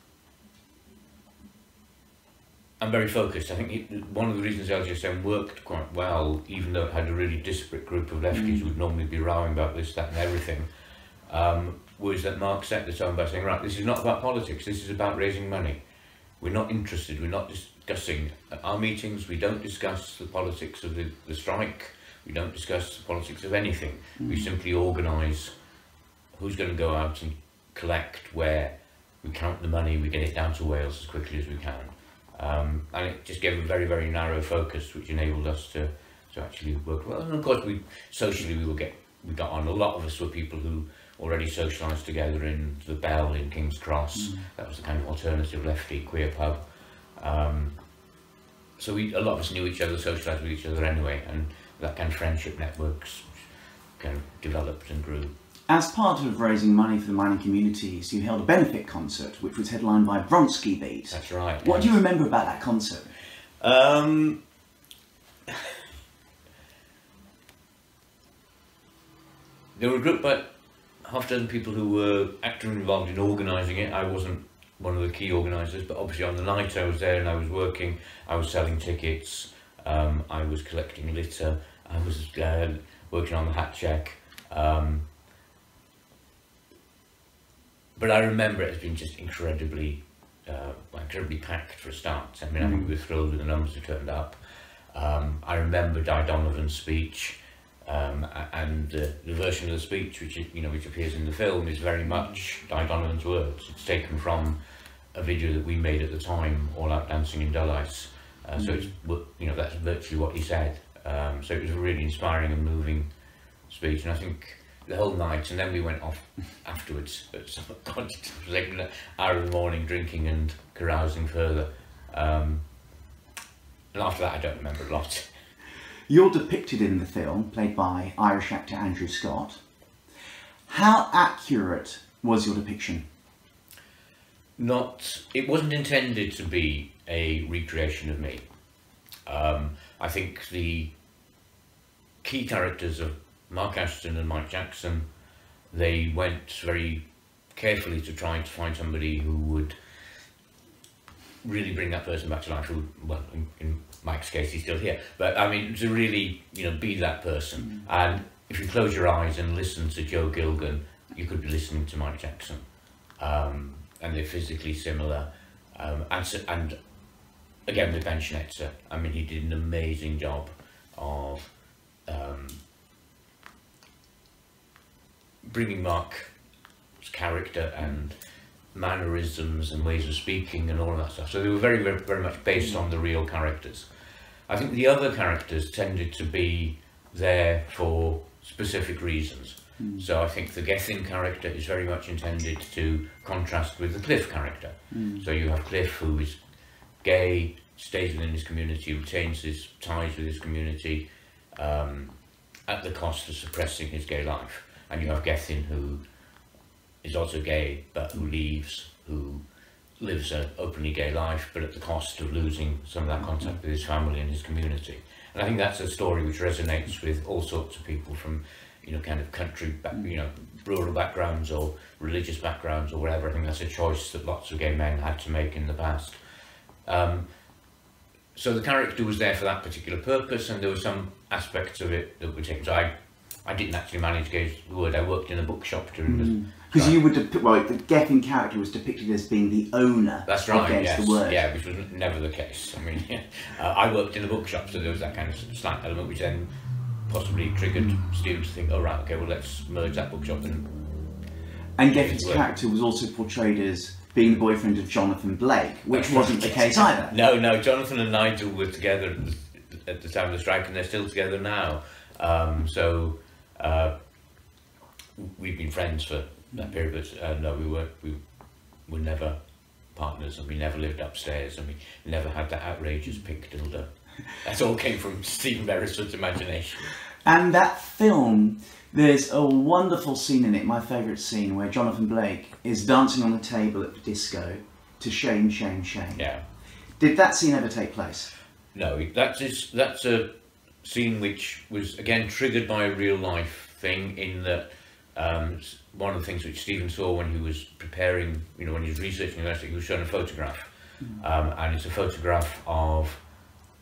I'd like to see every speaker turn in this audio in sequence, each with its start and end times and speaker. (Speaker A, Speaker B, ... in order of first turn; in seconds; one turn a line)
Speaker A: 2.8-10.7
Speaker B: 8.3-8.7
Speaker A: 11.3-15.8
Speaker A: 16.4-25.5
Speaker B: 24.2-24.5
Speaker A: 26.3-46.6
Speaker A: 47.2-47.8
Speaker A: 48.8-53.4
Speaker A: 54.0-55.3
Speaker B: 55.7-63.1
Speaker A: 61.1-62.0
Speaker A: 63.6-64.4
Speaker A: 69.8-70.5
Speaker A: 71.0-85.1
Speaker A: 88.0-94.4
Speaker B: 92.6-92.9
Speaker A: 94.9-104.6
Speaker A: 105.1-113.1
Speaker B: 108.6-108.9
Speaker A: 113.7-122.6
Speaker A: 123.9-125.3
Speaker B: 126.1-129.6
Speaker B: 130.7-133.1
Speaker A: 134.6-138.4
Speaker A: 139.3-140.9
Speaker A: 142.2-145.1
Speaker A: 145.7-147.0
Speaker A: 147.5-149.8
Speaker A: 151.4-162.7
Speaker A: 163.2-166.8
Speaker A: 167.7-171.5
Speaker A: 172.1-172.6
Speaker A: 175.4-176.3
Speaker A: 177.0-178.2
Speaker A: 178.7-183.9
Speaker A: 184.5-196.4
Speaker B: 189.8-190.1
Speaker B: 194.9-195.3
Speaker A: 197.0-202.2
Speaker A: 202.7-206.0
Speaker A: 207.0-209.4
Speaker A: 210.0-226.2
Speaker A: 226.8-227.3
Speaker A: 228.3-232.9
Speaker A: 233.4-237.0
Speaker B: 236.1-241.4
Speaker A: 240.3-246.5
Speaker A: 247.1-250.7
Speaker B: 251.8-257.1
Speaker A: 251.9-252.5
Speaker A: 255.9-263.9
Speaker A: 265.2-268.2
Speaker A: 268.9-269.4
Speaker A: 269.9-276.9
Speaker B: 277.2-286.2
Speaker A: 286.2-286.4
Speaker B: 287.0-288.3
Speaker A: 288.7-290.3
Speaker A: 290.8-303.2